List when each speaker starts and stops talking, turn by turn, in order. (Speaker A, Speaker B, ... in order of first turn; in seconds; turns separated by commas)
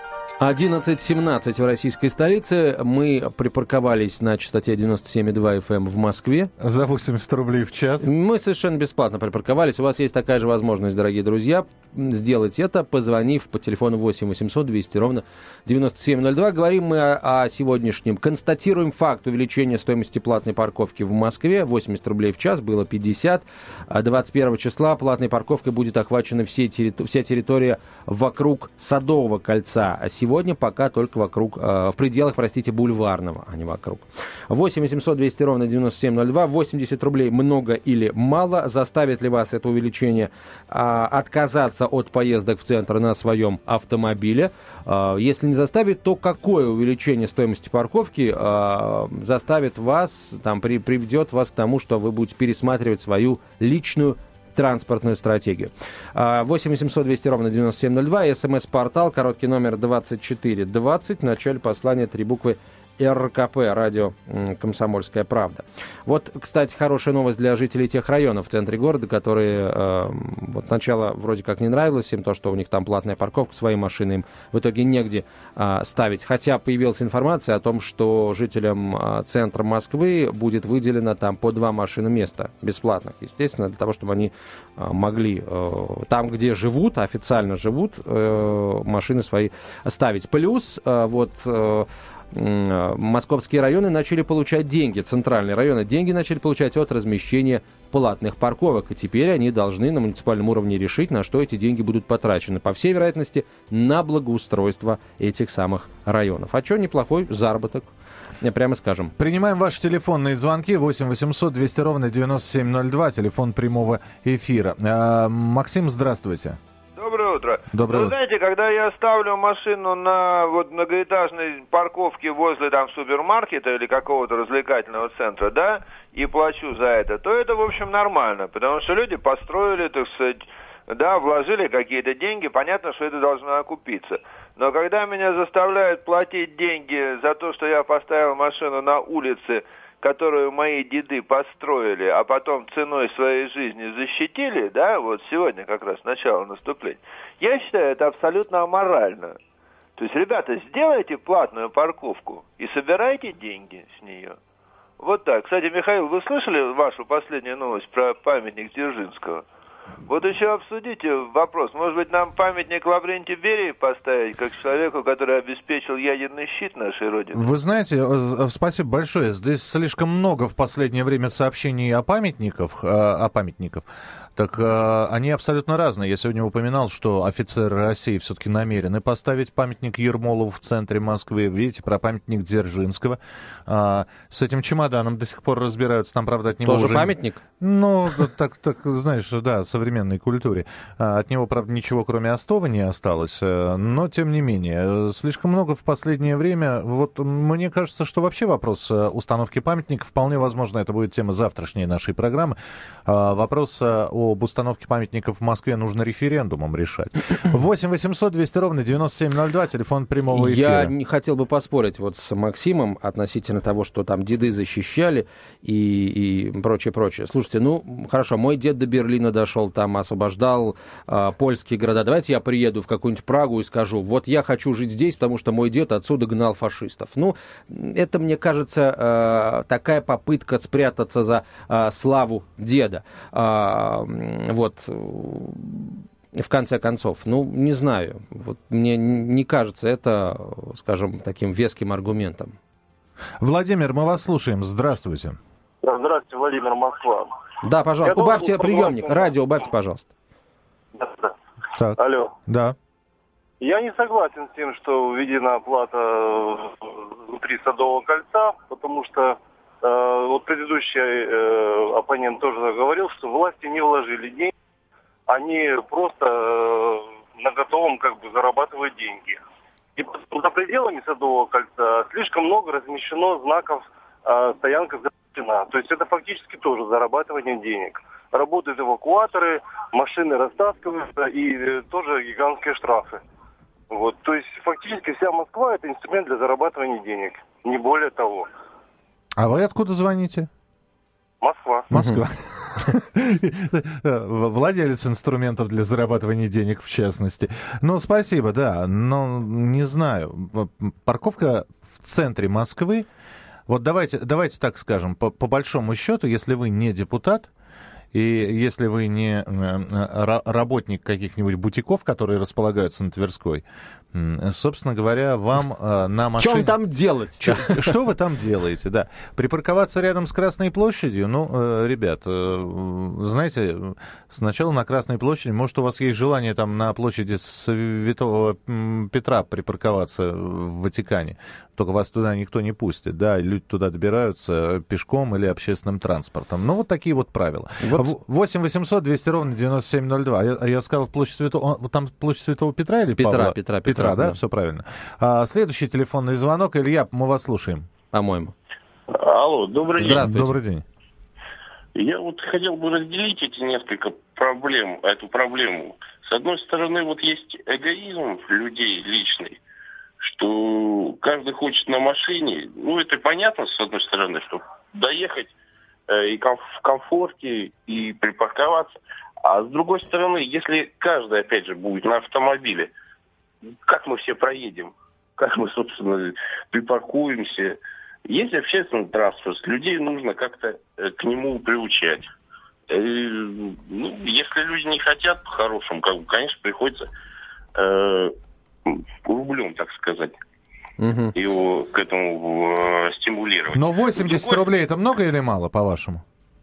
Speaker A: 0.4-6.5, Speaker B: 6.6-8.1, Speaker A: 8.0-107.9, Speaker A: 108.4-109.1, Speaker B: 109.2-116.6, Speaker C: 117.0-149.4, Speaker B: 117.7-118.2, Speaker C: 150.0-154.4, Speaker C: 155.0-159.4, Speaker C: 160.1-167.4, Speaker B: 167.3-210.9, Speaker A: 186.7-187.4, Speaker A: 210.3-242.6, Speaker B: 243.4-245.4, Speaker D: 245.8-247.3, Speaker A: 247.6-250.1, Speaker D: 248.0-249.3, Speaker D: 250.9-251.3, Speaker B: 251.8-252.8, Speaker D: 252.0-252.3, Speaker D: 253.6-264.5, Speaker D: 265.3-269.4, Speaker D: 270.0-283.2, Speaker D: 283.9-288.5, Speaker B: 289.4-290.5, Speaker D: 291.4-291.9, Speaker B: 291.9-303.1, Speaker A: 291.9-292.2, Speaker B: 303.7-307.5, Speaker B: 308.1-316.8, Speaker A: 316.4-317.9, Speaker B: 317.4-347.9, Speaker A: 337.8-338.1, Speaker A: 343.2-344.4, Speaker A: 348.1-348.5, Speaker E: 349.1-350.3, Speaker A: 350.0-350.6, Speaker B: 350.0-350.9, Speaker E: 352.0-359.6, Speaker E: 360.2-365.5, Speaker E: 366.1-368.9, Speaker E: 369.4-372.9, Speaker E: 373.9-382.3, Speaker E: 382.9-387.1, Speaker E: 387.8-388.4, Speaker E: 388.9-390.4, Speaker A: 391.0-391.3, Speaker E: 391.4-394.6, Speaker B: 393.7-396.2